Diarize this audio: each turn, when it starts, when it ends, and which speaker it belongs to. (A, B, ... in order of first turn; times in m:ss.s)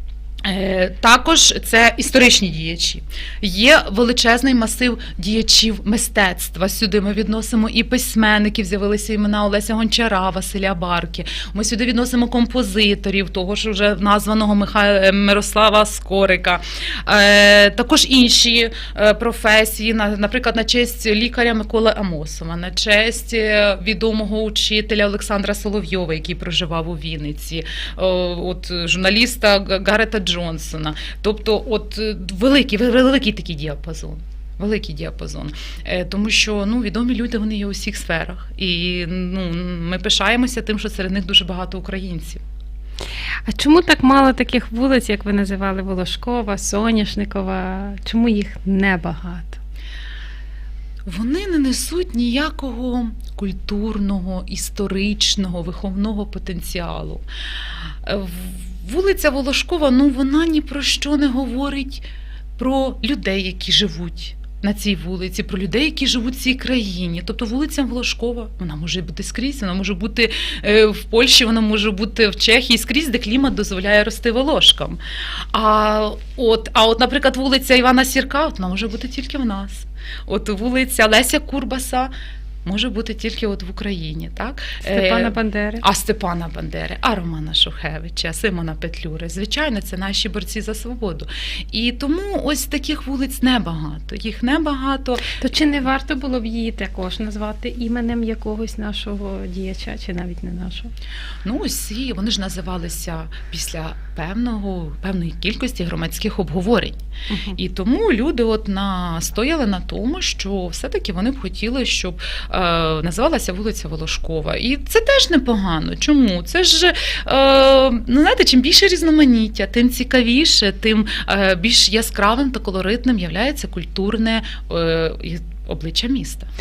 0:00.4-0:42.4 A
0:43.5-0:49.6 B
0:51.0-0:57.2 A
0:58.0-1:02.1 A
1:02.6-1:15.0 A
1:15.5-1:22.1 A
1:22.6-1:35.3 A
1:24.8-1:25.8 B
1:35.4-1:40.9 B
1:41.4-1:47.0 A
1:47.3-1:47.6 B
1:47.6-2:06.5 A